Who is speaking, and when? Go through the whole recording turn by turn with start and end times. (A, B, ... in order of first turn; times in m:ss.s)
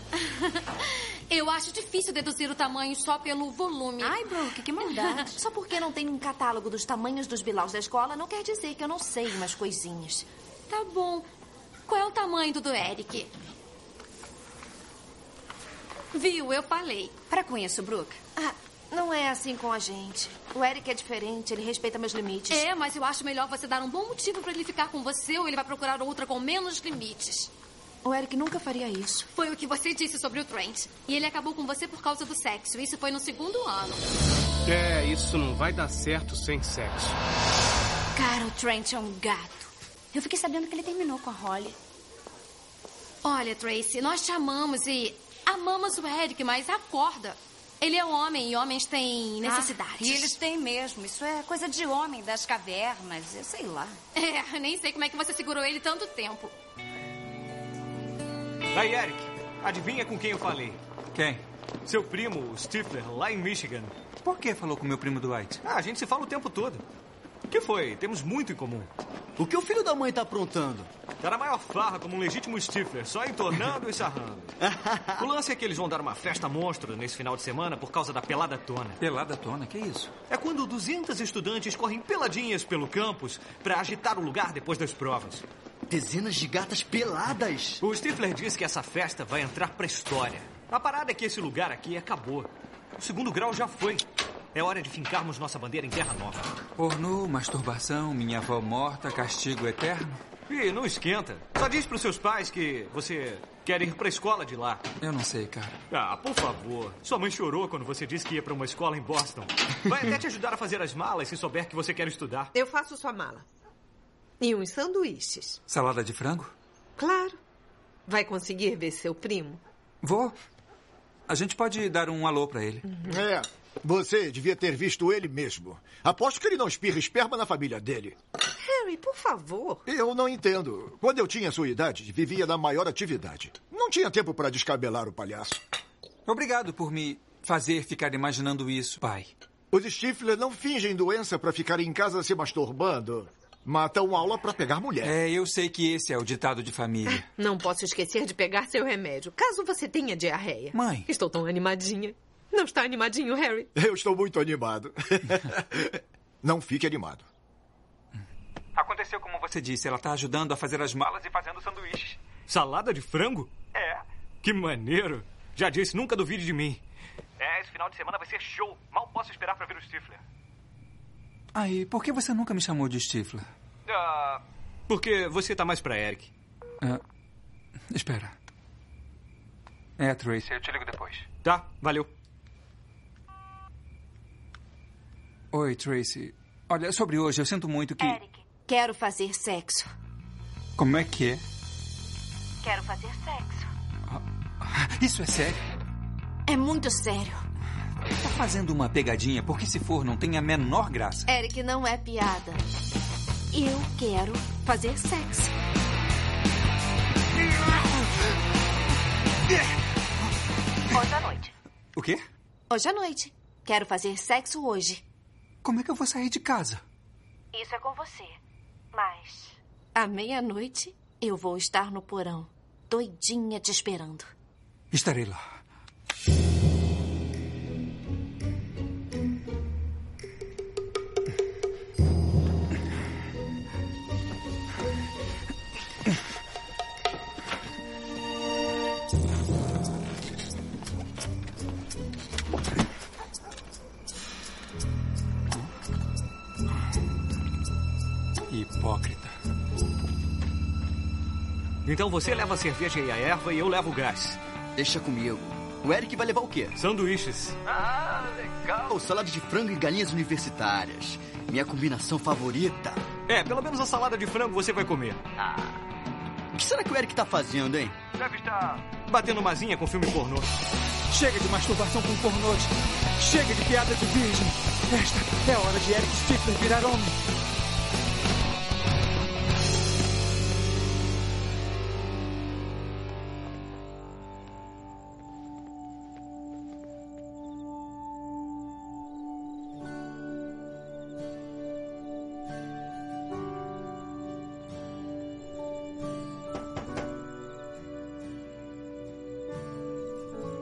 0:00.3-0:05.2 A
0:04.0-0:05.4 B
0:05.3-0:10.2 C
0:10.7-0:11.3 A
0:11.9-0:13.3 A
0:16.1-0:17.2 A
0:17.3-0:18.2 B
0:18.4-0:22.6 C
0:22.5-0:27.5 A
0:28.0-0:29.3 C
0:29.3-0:34.0 A
0:34.6-0:37.1 D
0:38.2-0:41.8 B
0:43.2-0:50.3 A
0:49.4-0:54.0 B
0:54.1-0:56.5 A
0:58.7-1:00.8 E
1:01.1-1:01.4 F
1:01.8-1:03.9 E
1:04.2-1:05.6 F
1:05.6-1:06.8 E
1:07.5-1:08.9 E
1:09.4-1:10.9 G
1:11.2-1:14.5 E
1:14.6-1:15.3 G
1:15.2-1:19.0 E
1:19.0-1:20.1 F
1:20.3-1:25.4 E
1:25.9-1:27.8 G
1:27.8-1:36.6 E
1:36.8-1:40.2 F
1:40.5-1:44.8 E
1:45.0-1:45.8 F
1:45.9-1:52.5 E
1:52.5-1:53.4 H
1:54.4-1:55.6 H
1:55.7-1:56.5 F
1:57.0-1:57.4 H
1:58.1-1:59.6 H
2:00.0-2:00.4 F
2:01.3-2:02.8 F
2:03.1-2:08.2 I
2:08.6-2:09.8 H
2:09.8-2:15.6 I
2:16.2-2:19.3 F
2:19.7-2:25.1 I
2:25.0-2:27.2 F
2:27.0-2:33.7 H
2:30.7-2:31.1 F
2:33.7-2:37.2 I
2:38.7-2:42.2 F
2:42.5-2:43.7 E
2:44.4-2:46.8 E
2:47.4-2:50.2 E
2:51.5-2:53.5 F
2:53.9-2:56.3 E
2:57.9-2:58.3 F
3:00.0-3:01.3 F
3:01.4-3:02.1 E
3:05.5-3:08.2 F
3:08.0-3:09.9 C
3:10.8-3:11.4 F
3:12.6-3:13.7 C
3:14.1-3:15.6 F
3:16.5-3:17.4 C
3:18.1-3:21.3 F
3:21.3-3:22.6 C
3:23.5-3:25.5 C
3:29.5-3:29.7 F
3:30.9-3:31.5 C
3:31.9-3:32.2 F
3:32.7-3:35.0 C
3:35.6-3:36.8 F
3:37.6-3:38.3 C
3:39.0-3:39.3 C
3:39.9-3:44.3 C
3:44.9-3:45.4 F
4:08.5-4:09.4 F
4:11.8-4:14.4 E
4:14.8-4:16.8 G
4:16.8-4:17.6 E
4:18.8-4:23.0 G
4:23.3-4:25.2 E
4:26.6-4:28.0 G
4:29.0-4:30.5 E
4:31.1-4:37.1 F